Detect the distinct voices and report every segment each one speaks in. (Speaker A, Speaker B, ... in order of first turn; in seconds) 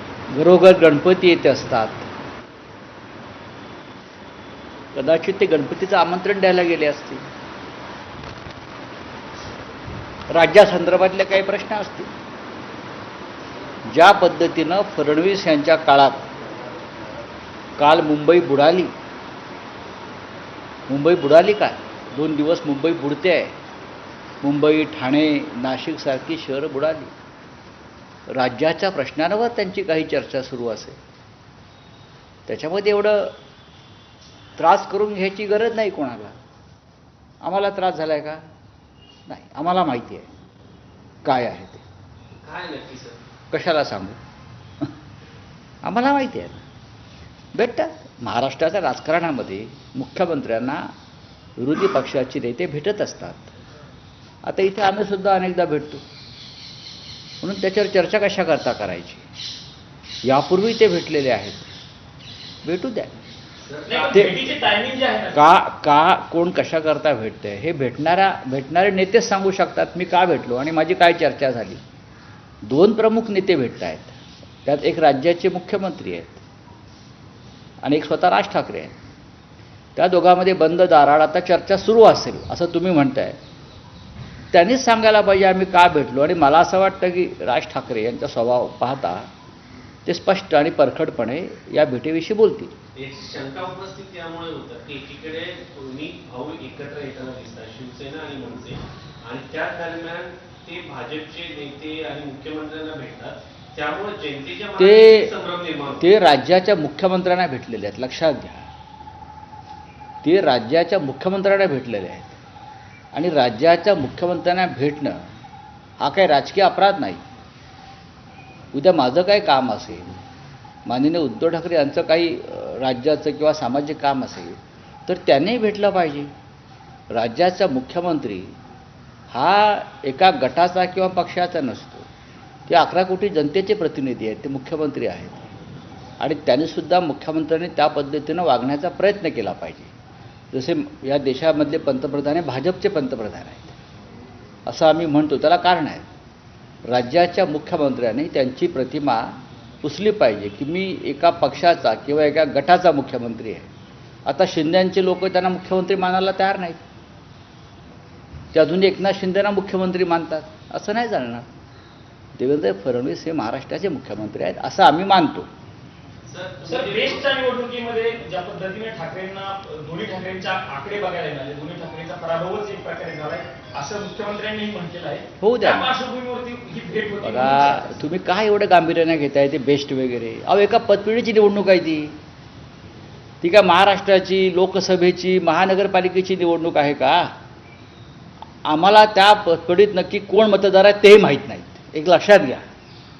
Speaker A: 0.3-2.0, 4.9-7.2, 10.3-12.1, 13.9-16.3, 17.8-18.9, 20.9-23.6, 24.4-27.1, 28.3-31.0, 32.5-33.3, 34.6-36.4, 37.4-38.4, 39.3-40.3, 41.2-41.8, 43.5-44.2, 45.8-46.6, 47.5-50.9, 51.6-53.5, 54.4-56.0, 57.4-59.2, 60.2-61.7, 62.6-63.2, 65.3-71.8, 72.7-76.4, 77.8-78.9, 80.0-83.4, 84.5-89.3, 90.0-92.7, 104.8-105.3, 106.0-108.7, 110.2-112.4, 113.1-115.2, 116.0-117.2, 118.7-120.2, 120.8-126.3, 127.1-128.5, 129.3-132.1, 132.7-135.4, 136.2-139.9, 140.5-143.8, 144.7-146.1, 146.8-153.7, 154.2-156.8, 158.5-161.5, 162.3-165.5, 175.4-175.9, 177.2-182.2, 183.4-187.3, 188.6-192.6
Speaker B: 42.4-43.2, 63.6-64.3, 93.0-106.1, 166.2-167.3
Speaker C: 63.9-65.4, 166.6-177.9